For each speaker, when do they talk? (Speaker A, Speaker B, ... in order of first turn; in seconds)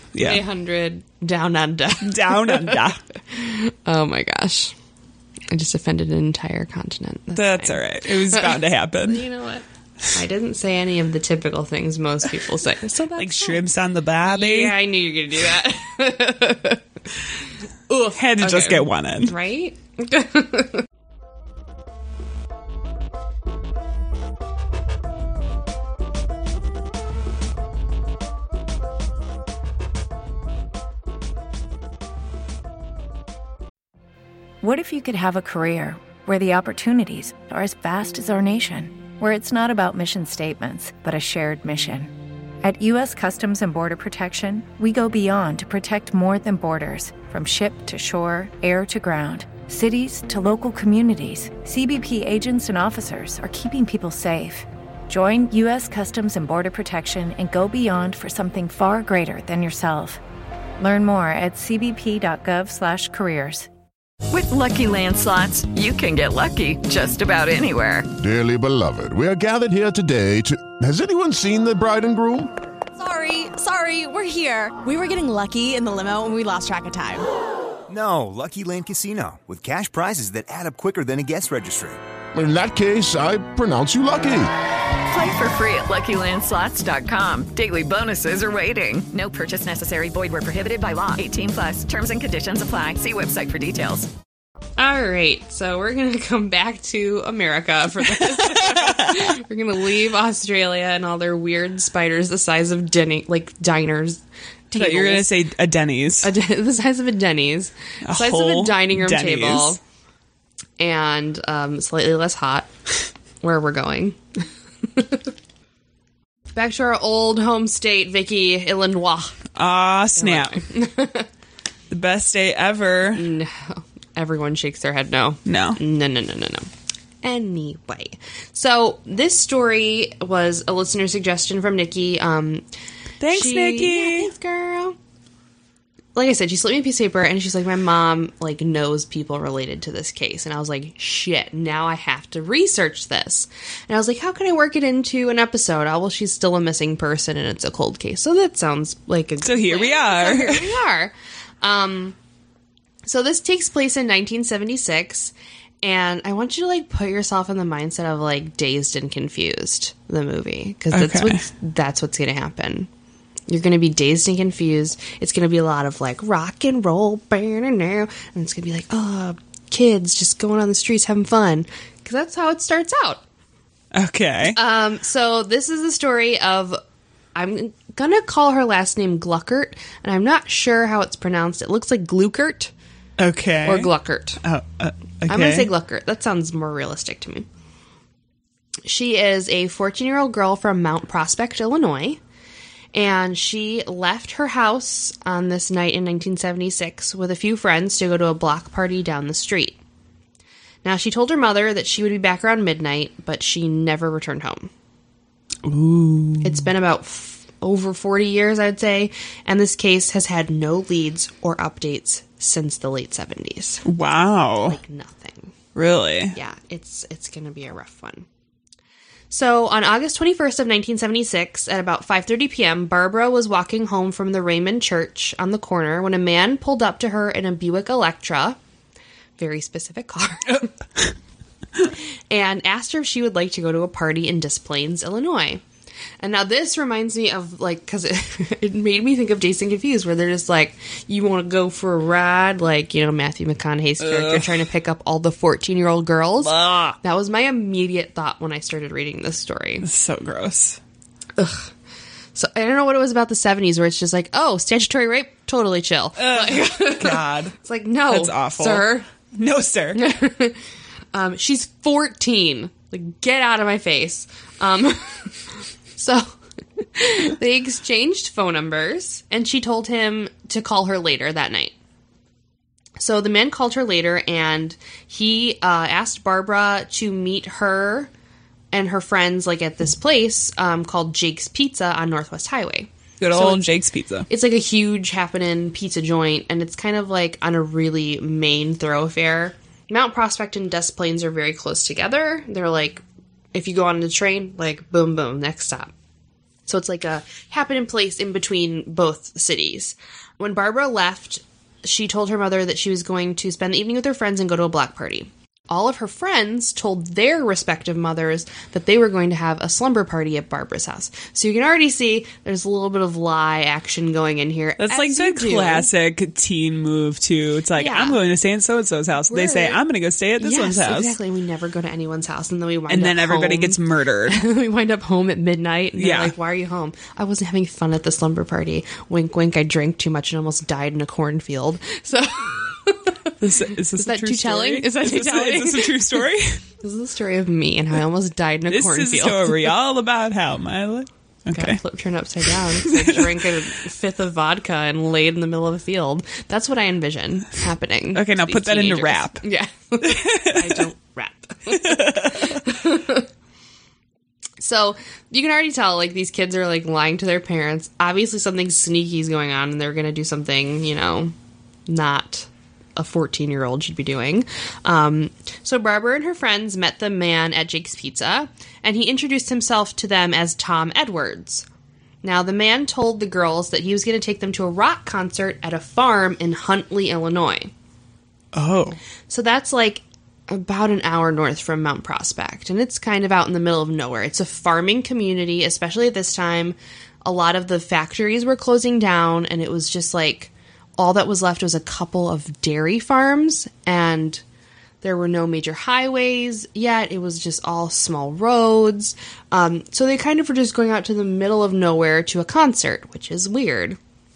Speaker A: 0.1-0.4, 2.0-3.0, 7.3-9.2, 13.2-14.7, 18.2-19.3, 98.3-99.3, 104.8-106.3, 108.0-109.8, 119.6-120.6, 121.9-123.3, 125.5-125.8, 133.2-134.3, 149.4-150.8, 160.9-161.4, 173.9-174.6, 183.2-183.9, 184.4-185.7, 205.6-206.7, 213.8-214.8, 215.8-216.3, 244.0-244.5, 246.4-247.0, 249.8-250.8, 256.2-257.5, 258.1-260.0, 283.2-284.3, 314.8-321.1, 322.9-324.4, 326.0-326.3, 333.4-336.6, 338.7-341.8, 342.5-343.4, 348.1-349.4, 350.0-350.9, 351.7-352.6, 378.5-379.0
Speaker B: 0.2-4.7, 5.5-13.6, 14.2-20.8, 94.8-105.3, 106.2-109.8, 110.8-112.7, 113.4-114.2, 114.9-115.2, 116.5-119.4, 120.2-121.3, 123.2-126.7, 127.2-132.7, 133.3-135.0, 136.2-152.2, 153.1-162.9, 163.5-173.2, 174.5-176.8, 177.3-182.7, 183.7-184.4, 185.3-187.5, 188.9-192.2, 192.9-199.8, 200.8-204.7, 206.4-213.8, 214.7-215.5, 216.3-218.3, 219.3-228.6, 229.4-230.7, 232.3-235.6, 236.2-249.8, 251.4-251.7, 252.3-259.1, 259.9-260.6, 261.1-271.8, 273.0-278.1, 278.7-283.6, 284.3-293.0, 293.5-295.9, 296.7-315.9, 317.8-318.2, 319.3-319.8, 320.4-333.1, 334.0-336.2, 336.8-339.6, 341.6-353.3, 354.6-361.3, 361.9-371.6, 372.2-377.7, 379.3-394.4, 395.0-404.0
Speaker C: 34.6-60.2, 60.8-63.7
Speaker D: 64.3-68.1, 85.0-94.1
Speaker E: 68.2-72.5, 82.3-84.5
Speaker F: 73.0-77.3
Speaker G: 77.9-82.0